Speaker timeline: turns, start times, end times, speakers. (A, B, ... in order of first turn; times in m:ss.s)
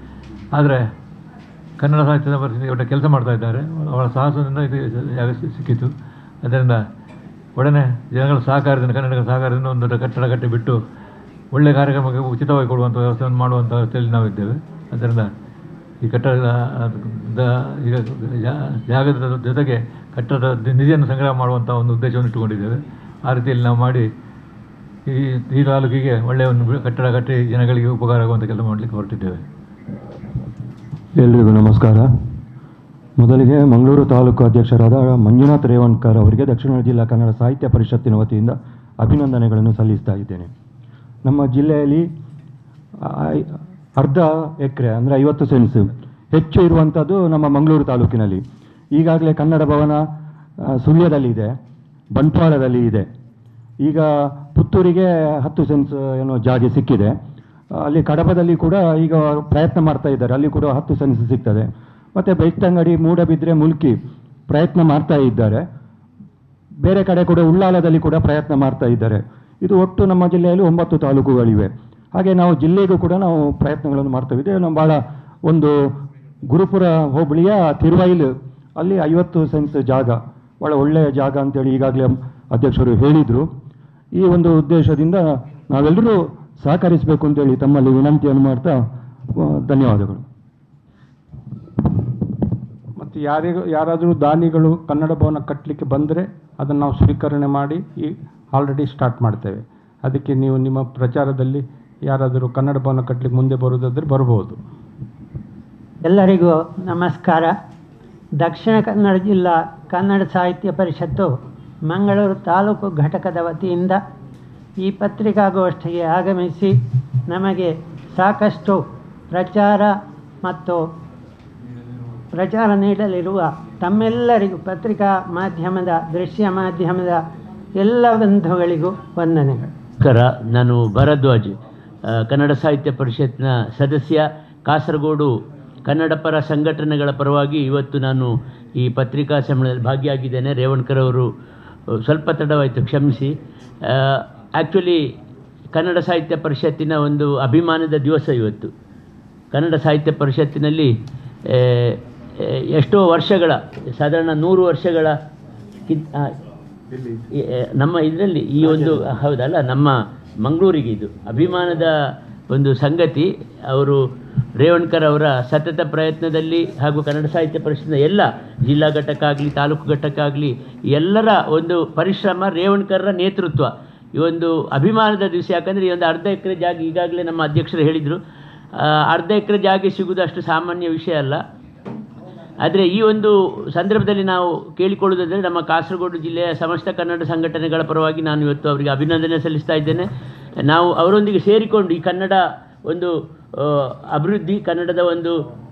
0:00.5-0:00.8 A
0:01.8-0:05.9 A
0:06.4-0:06.8 A
0:07.6-0:10.8 A
0:11.5-0:15.3 A
0:16.0-0:24.1 A
0:25.1-0:29.4 A
0:31.2-0:32.0 B
0:33.2-0:40.5 B
0:41.2-0:42.1 B
0:43.0-0:48.4 B
0:49.0-0:50.0 B
0:50.7-0:51.6 B
0:52.1-0:53.1 B
0:53.8-0:57.2 B
0:57.8-1:04.0 B
1:04.5-1:05.7 B
1:06.8-1:15.8 B
1:16.5-1:23.5 B
1:24.2-1:28.8 B
1:29.4-1:30.2 B
1:33.0-1:44.6 C
1:46.1-1:47.5 D
1:48.4-1:51.3 D
1:51.9-1:54.0 D
1:54.8-2:00.8 D
2:02.3-2:07.2 D
2:07.8-2:09.7 D
2:10.0-2:11.5 E
2:12.3-2:15.3 E
2:15.9-2:21.3 E
2:22.0-2:23.3 E
2:23.9-2:25.0 E
2:25.8-2:28.7 E
2:29.5-2:30.9 E
2:31.6-2:32.0 E
2:32.8-2:35.1 E
2:35.9-2:36.3 E
2:36.9-2:37.2 B
2:37.8-2:39.9 E
2:38.7-2:39.0 B
2:40.4-2:41.9 E
2:42.5-2:44.0 E
2:44.6-2:58.2 E
2:59.1-3:01.4 E
3:02.6-3:10.1 E
3:10.7-3:15.3 E